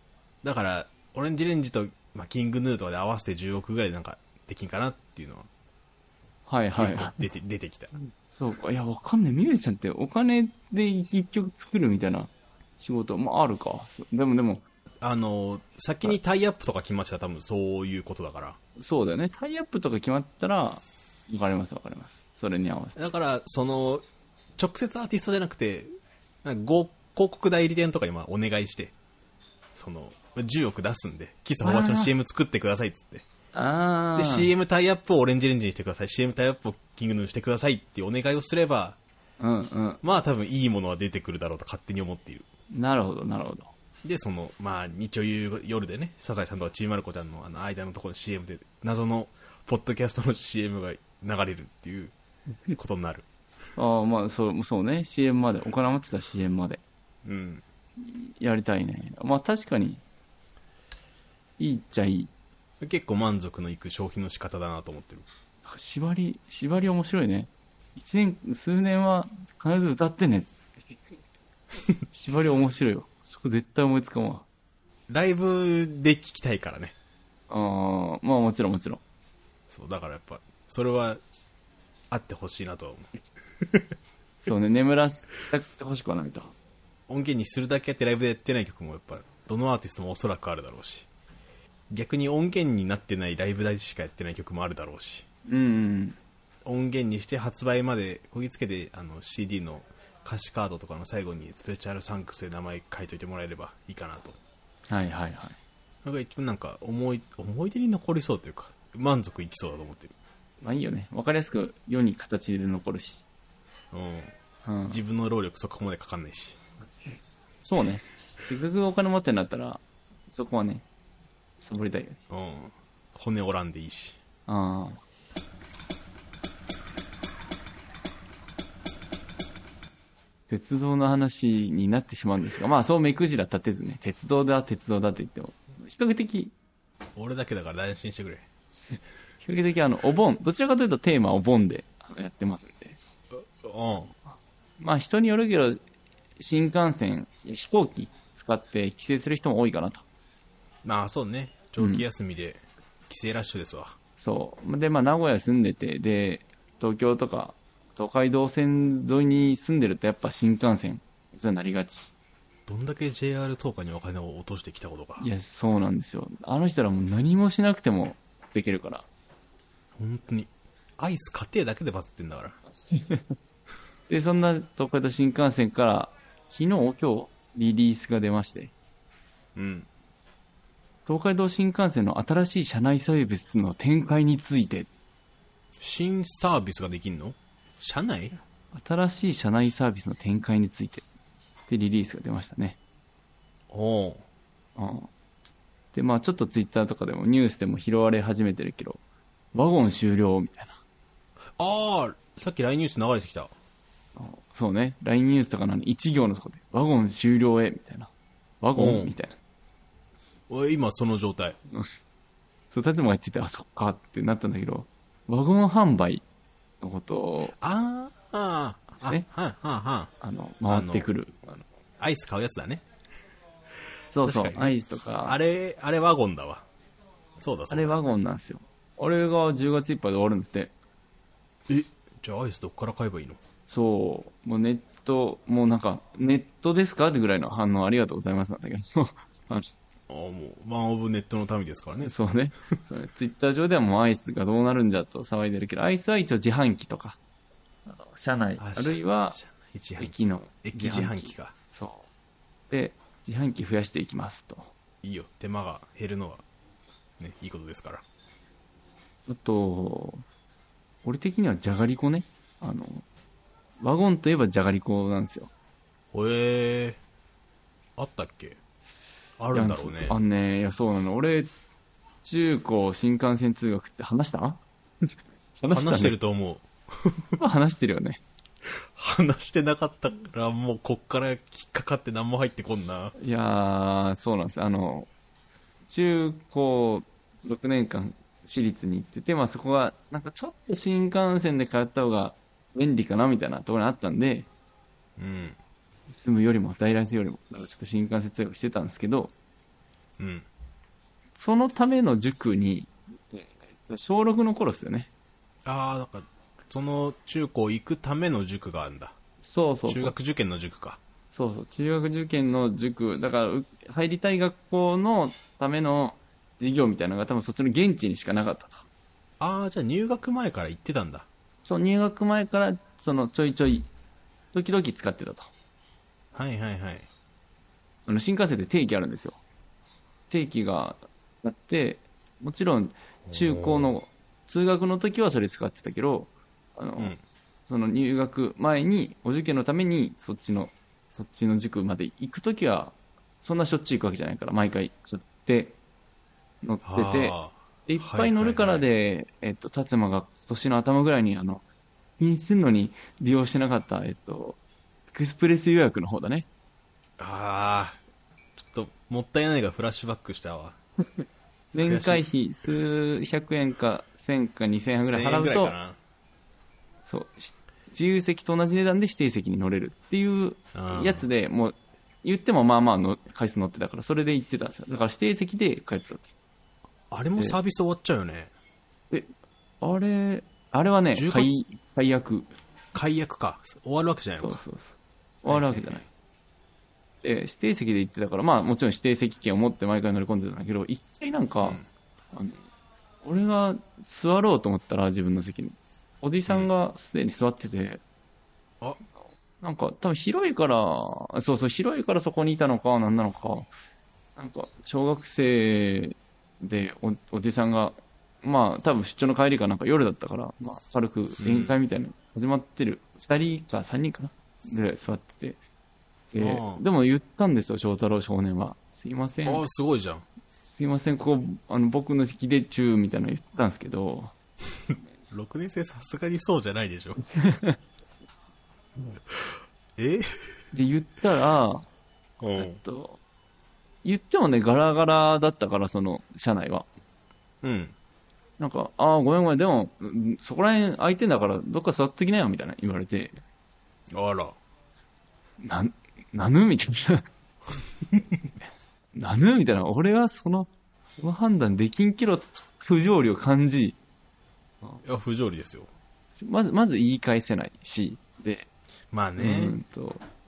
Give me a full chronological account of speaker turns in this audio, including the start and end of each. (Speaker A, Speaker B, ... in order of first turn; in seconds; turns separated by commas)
Speaker A: 0.4-5.5, Speaker B: 6.5-7.2, Speaker A: 6.8-7.9, Speaker B: 8.2-14.6, Speaker A: 15.0-18.6, Speaker B: 18.8-23.1, Speaker A: 22.9-24.0, Speaker A: 24.6-25.9, Speaker A: 26.4-28.9, Speaker A: 29.7-33.2, Speaker B: 31.6-32.1, Speaker B: 33.5-34.5, Speaker A: 34.1-39.0, Speaker B: 39.4-40.0, Speaker A: 40.0-42.5, Speaker B: 42.7-43.7, Speaker A: 44.0-52.1, Speaker A: 52.8-53.2, Speaker B: 53.8-56.8, Speaker A: 57.2-57.6, Speaker B: 58.0-60.0, Speaker B: 61.6-62.3, Speaker A: 62.8-65.3, Speaker B: 65.6-70.5, Speaker B: 72.1-74.5, Speaker A: 75.1-76.9, Speaker B: 77.5-79.0, Speaker A: 79.7-81.2, Speaker A: 82.1-83.1, Speaker A: 83.6-83.9, Speaker B: 84.4-86.5, Speaker A: 87.1-91.1, Speaker A: 91.9-95.2, Speaker B: 95.5-96.2, Speaker A: 96.6-104.4, Speaker B: 104.9-105.6, Speaker A: 106.0-110.1, Speaker B: 110.6-113.2, Speaker A: 113.9-114.3, Speaker B: 114.6-115.0, Speaker A: 114.9-116.6, Speaker B: 117.6-120.8, Speaker B: 121.6-122.2, Speaker A: 122.3-124.2, Speaker B: 124.5-125.0, Speaker B: 130.5-136.5, Speaker A: 137.2-138.4, Speaker B: 139.4-143.0, Speaker A: 143.3-144.1, Speaker B: 144.8-145.8, Speaker B: 146.4-150.0, Speaker A: 150.8-153.9, Speaker B: 151.8-152.0, Speaker B: 154.2-162.1, Speaker A: 162.7-165.3, Speaker B: 165.2-169.1, Speaker A: 169.9-172.6, Speaker B: 172.9-173.3, Speaker B: 174.1-178.7, Speaker A: 179.5-179.9, Speaker B: 181.1-184.9, Speaker A: 185.8-188.3, Speaker B: 188.7-191.0, Speaker B: 191.7-192.8, Speaker A: 193.7-194.2, Speaker B: 194.8-195.1, Speaker B: 195.9-199.0, Speaker B: 199.5-200.8, Speaker A: 201.6-203.5, Speaker B: 204.2-209.4, Speaker A: 208.8-209.1, Speaker A: 210.5-211.6, Speaker B: 212.7-216.2, Speaker B: 216.8-217.5, Speaker A: 217.6-220.1, Speaker B: 220.2-221.6, Speaker A: 220.7-221.1, Speaker A: 222.0-222.8, Speaker B: 224.1-225.4, Speaker A: 224.2-226.6, Speaker A: 227.4-228.0, Speaker B: 227.7-230.7, Speaker A: 231.7-233.4, Speaker B: 233.7-239.7, Speaker A: 240.1-242.1, Speaker B: 242.0-247.2, Speaker B: 247.8-249.4, Speaker A: 248.6-251.5, Speaker B: 250.0-252.1, Speaker B: 252.7-254.7, Speaker A: 255.0-256.4, Speaker A: 257.2-258.0, Speaker B: 259.3-260.2, Speaker B: 261.0-263.0, Speaker B: 263.8-265.5, Speaker A: 266.1-267.0, Speaker A: 268.0-268.6, Speaker A: 269.4-270.1, Speaker B: 269.5-271.5, Speaker B: 272.2-274.6, Speaker B: 275.6-276.1, Speaker A: 275.7-277.3, Speaker B: 277.4-278.2, Speaker A: 278.6-283.1, Speaker B: 283.2-285.1, Speaker B: 285.9-294.5, Speaker A: 295.2-295.6, Speaker B: 296.1-299.3, Speaker A: 300.2-300.4, Speaker B: 301.4-305.1, Speaker A: 305.6-309.1, Speaker B: 309.4-310.1, Speaker A: 309.9-311.0, Speaker B: 311.3-318.9, Speaker A: 319.4-321.3, Speaker B: 321.6-323.9, Speaker B: 324.5-325.5, Speaker A: 326.3-327.1, Speaker B: 328.1-329.4, Speaker B: 330.3-337.1, Speaker A: 333.3-333.9, Speaker B: 337.7-345.8, Speaker B: 346.6-351.6, Speaker A: 346.8-348.9, Speaker B: 352.2-354.6, Speaker B: 355.1-356.5, Speaker A: 357.2-358.0, Speaker A: 358.6-360.8, Speaker B: 361.7-365.7, Speaker A: 361.8-362.2, Speaker A: 365.0-366.0, Speaker B: 367.0-376.3, Speaker A: 370.7-371.2, Speaker A: 377.1-378.5, Speaker B: 379.8-382.5, Speaker A: 381.1-381.5, Speaker A: 382.9-384.6, Speaker B: 384.4-386.1, Speaker A: 385.5-386.1, Speaker B: 387.2-391.8, Speaker B: 392.3-392.6, Speaker B: 393.2-398.0, Speaker B: 399.6-403.7, Speaker B: 404.4-415.6, Speaker A: 411.4-411.7, Speaker B: 416.3-419.7, Speaker A: 416.4-416.8, Speaker A: 419.4-420.2, Speaker B: 420.6-424.3, Speaker A: 425.3-427.2, Speaker B: 427.3-427.8, Speaker A: 429.3-430.3, Speaker B: 430.7-431.9, Speaker A: 432.4-432.8, Speaker B: 432.6-433.2, Speaker B: 434.0-436.9, Speaker A: 437.6-437.9, Speaker B: 438.6-443.4, Speaker A: 444.1-444.6, Speaker B: 445.6-447.2, Speaker B: 449.1-454.0, Speaker A: 455.0-455.9, Speaker B: 456.4-458.7, Speaker A: 459.1-459.8, Speaker B: 459.4-460.2